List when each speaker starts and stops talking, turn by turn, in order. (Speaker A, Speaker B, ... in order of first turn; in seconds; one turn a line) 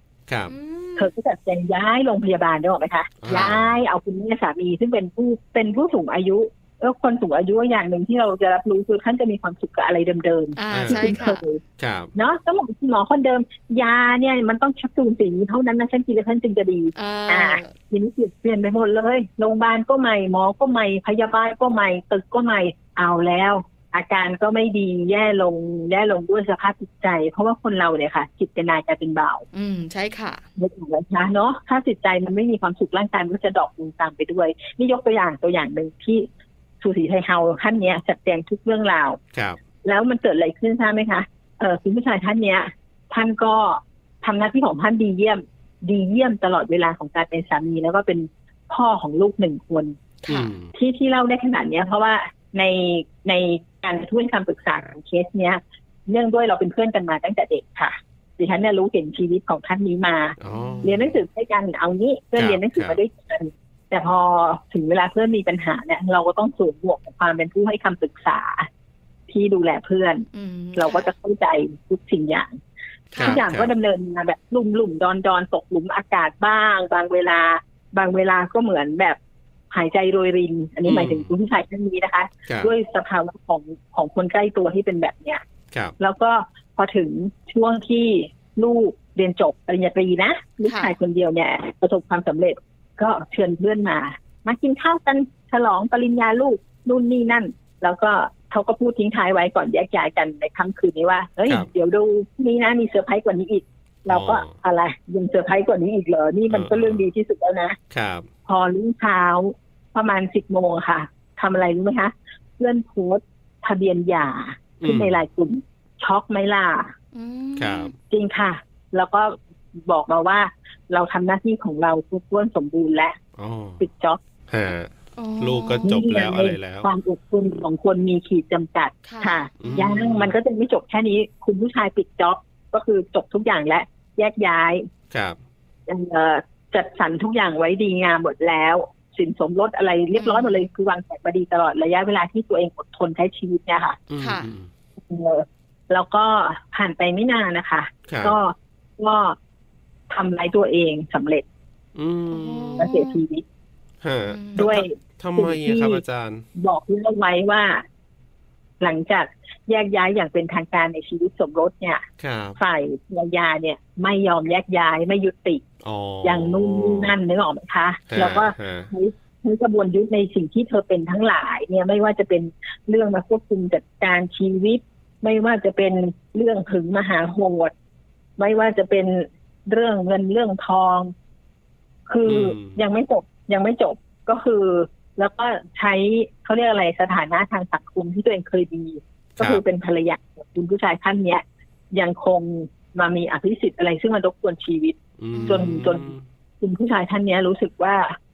Speaker A: 0.5-1.1
Speaker B: 1.0-11.6
Speaker C: 3.2-3.8
Speaker A: 10.6-11.4
Speaker C: 10.7-11.2
Speaker C: 11.8-12.1
Speaker B: 12.2-29.4
Speaker A: 17.0-17.7
Speaker A: 29.5-30.4
Speaker B: 30.6-36.3
Speaker B: 36.8-39.2
Speaker C: 39.3-39.6
Speaker B: 39.8-50.0
Speaker C: 50.3-50.7
Speaker A: 50.3-50.5
Speaker B: 50.7-68.7
Speaker C: 60.4-61.2
Speaker A: 60.5-60.9
Speaker C: 62.4-63.0
Speaker B: 69.3-72.6
Speaker A: 70.3-71.1
Speaker A: 73.1-73.4
Speaker C: 73.2-73.7
Speaker B: 73.2-79.2
Speaker B: 79.7-85.4
Speaker C: 80.8-81.3
Speaker C: 82.5-82.7
Speaker B: 86.0-107.8
Speaker A: 90.7-90.9
Speaker C: 104.1-104.5
Speaker C: 106.5-107.0
Speaker C: 107.9-108.3
Speaker B: 108.5-116.9
Speaker C: 114.8-115.2
Speaker A: 117.1-117.9
Speaker C: 117.6-118.0
Speaker B: 118.1-123.2
Speaker C: 123.4-123.8
Speaker B: 123.8-124.2
Speaker C: 124.5-126.9
Speaker A: 125.2-125.9
Speaker B: 125.8-134.9
Speaker A: 129.1-129.4
Speaker C: 129.6-130.3
Speaker C: 135.1-135.4
Speaker B: 135.9-144.0
Speaker A: 140.2-140.6
Speaker C: 144.1-144.7
Speaker A: 144.2-144.5
Speaker B: 145.1-149.4
Speaker C: 148.1-148.4
Speaker B: 150.1-151.4
Speaker C: 152.0-152.9
Speaker A: 152.3-153.2
Speaker B: 152.8-153.4
Speaker C: 154.0-156.4
Speaker A: 154.3-154.7
Speaker B: 154.6-156.0
Speaker B: 156.6-157.8
Speaker B: 158.8-162.1
Speaker C: 162.2-162.6
Speaker B: 162.6-165.6
Speaker C: 165.8-167.2
Speaker B: 166.2-177.7
Speaker C: 168.1-168.9
Speaker B: 178.4-181.1
Speaker B: 182.1-198.2
Speaker C: 182.2-182.8
Speaker C: 195.2-196.2
Speaker A: 195.3-195.7